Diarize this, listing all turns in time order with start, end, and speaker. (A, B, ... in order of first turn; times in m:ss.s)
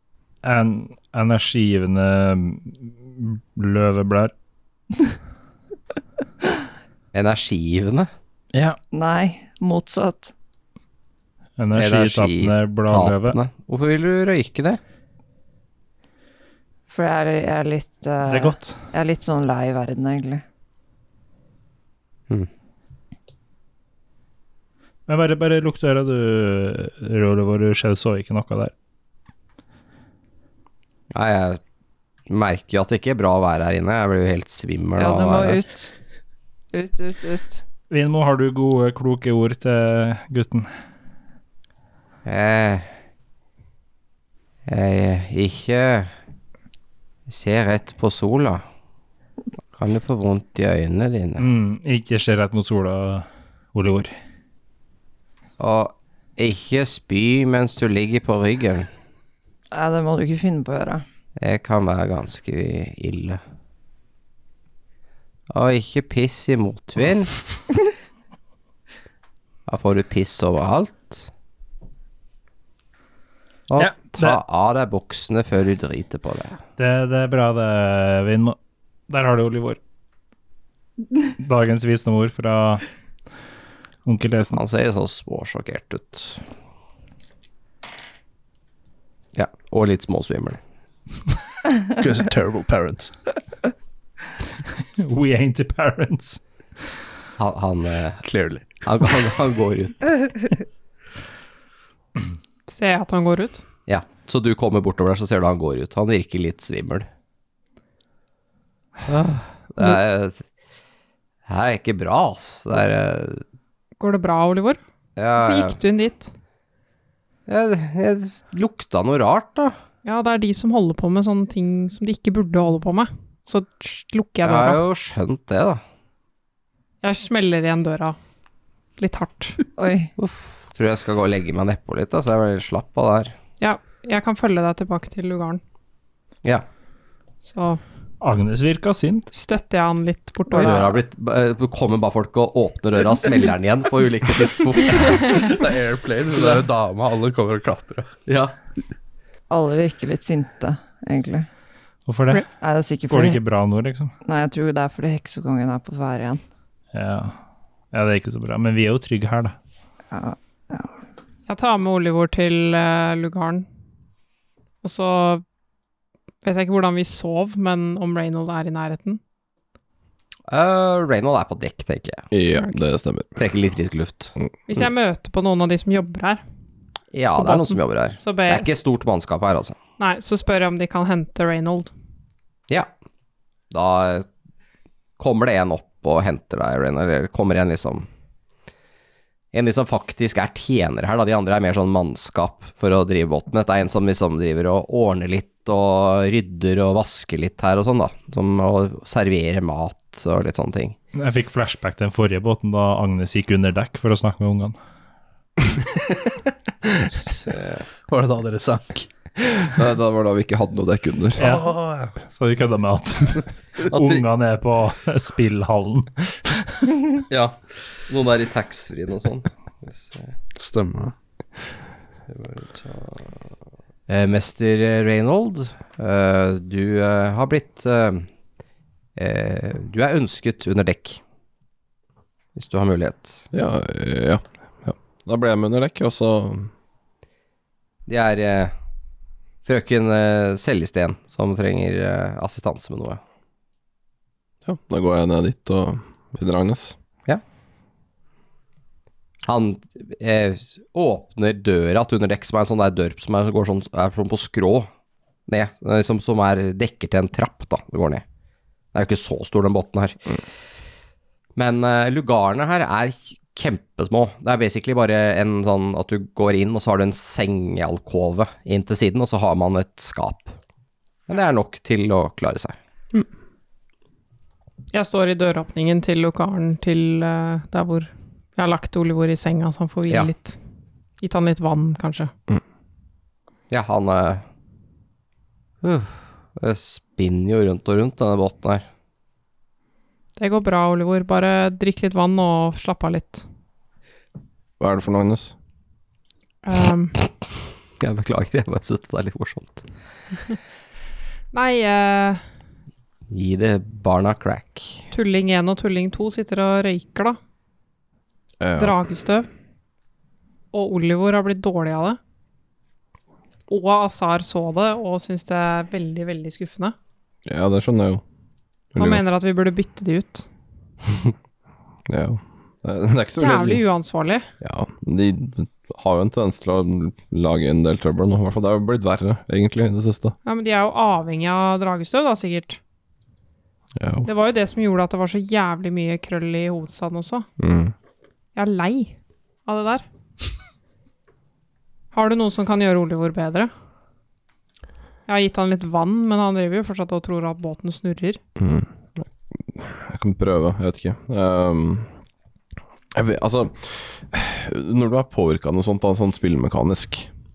0:00.4-0:04.3 A
0:07.1-0:08.1 B
0:08.5-0:08.8 A
0:08.9-0:10.3 C
0:11.6-0:13.4 A
0:11.7-0:14.8 B
0:16.9-0:20.4 C
0:18.2-0:18.9 A
0:25.1-0:28.7 A
0:31.1-0:31.6 B
0:32.3-0:35.6 B
0:35.0-0:35.9 C
0:36.7-0:37.6 C
0:37.9-0:40.7 A
0:42.2-0:42.9 B
0:44.7-0:46.1 B
0:47.3-0:48.6 B
0:49.8-0:51.4 B
0:51.4-0:54.1 A
0:55.6-0:58.9 B
0:59.7-1:01.0 C
1:01.4-1:03.4 B
1:05.5-1:07.3 B
1:09.7-1:11.3 B
1:13.7-1:16.6 B
1:13.8-1:14.4 A
1:16.8-1:18.6 A
1:19.1-1:19.8 A
1:21.4-1:22.8 A
1:24.0-1:24.6 A
1:24.5-1:26.4 B
1:29.3-1:30.6 B
1:31.9-1:33.1 D
1:35.0-1:36.4 A
1:37.4-1:38.2 B
1:38.2-1:39.3 D
1:38.8-1:40.1 B
1:42.7-1:43.6 E
1:43.9-1:47.1 B
1:49.0-1:50.4 B
1:51.5-1:53.4 B
1:54.0-1:54.8 E
1:55.2-1:55.8 B
1:55.4-1:56.3 E
1:57.5-1:59.8 B
2:00.0-2:04.8 E
2:04.4-2:05.8 B
2:07.0-2:08.2 E
2:09.0-2:09.6 E
2:09.8-2:10.1 C
2:10.2-2:13.3 B
2:13.6-2:15.6 E
2:17.4-2:17.8 E
2:18.2-2:19.3 A
2:19.3-2:21.0 E
2:20.6-2:25.5 B
2:25.3-2:28.2 D
2:28.3-2:28.5 B
2:29.5-2:31.5 C
2:32.0-2:32.4 A
2:32.6-2:33.4 C
2:33.1-2:34.1 A
2:34.2-2:36.4 C
2:36.9-2:37.4 A
2:37.9-2:39.5 A
2:40.1-2:40.9 C
2:41.5-2:43.6 E
2:44.8-2:45.4 E
2:46.4-2:49.2 E
2:50.5-2:52.3 B
2:52.3-2:53.4 F
2:53.4-2:54.3 B
2:54.7-2:56.4 E
2:57.1-2:59.8 B
2:57.4-2:58.7 E
3:00.0-3:01.9 E
3:03.7-3:04.3 B
3:05.2-3:08.1 B
3:09.5-3:21.0 B
3:21.1-3:24.8 A
3:27.4-3:27.8 B
3:28.1-3:29.1 D
3:29.7-3:31.4 F
3:31.4-3:36.9 A
3:31.5-3:32.1 D
3:33.9-3:34.2 B
3:37.3-3:40.3 B
3:40.6-3:41.1 D
3:42.3-3:43.2 B
3:44.1-3:48.3 B
3:49.2-3:51.2 B
3:52.6-3:53.4 B
3:53.5-3:56.7 F
3:58.1-3:58.7 B
3:59.6-4:03.2 B
4:04.6-4:07.0 F
4:09.4-4:14.9 B
4:15.5-4:18.2 B
4:18.9-4:20.2 B
4:21.6-4:30.6 B
4:31.3-4:32.8 B
4:34.9-4:40.6 E
4:41.2-4:42.3 E
4:43.7-4:44.4 B
4:45.8-4:48.8 B
4:50.4-4:53.4 E
4:54.8-4:55.5 F
4:56.6-4:57.2 E
4:58.0-4:59.9 B
5:01.5-5:02.4 E
5:03.3-5:05.0 B
5:05.1-5:07.4 E
5:08.6-5:09.0 F
5:08.8-5:09.5 E
5:10.7-5:12.2 E
5:13.7-5:16.9 E
5:17.4-5:18.2 F
5:19.0-5:19.2 F
5:19.0-5:20.5 E
5:22.1-5:23.8 F
5:23.4-5:24.5 E
5:24.6-5:30.3 F
5:30.4-5:32.8 E
5:34.0-5:34.2 F
5:34.2-5:37.4 E
5:37.6-5:37.9 F
5:38.5-5:40.0 E
5:42.1-5:43.7 E
5:45.3-5:48.4 E
5:48.6-5:52.1 F
5:53.1-5:57.3 F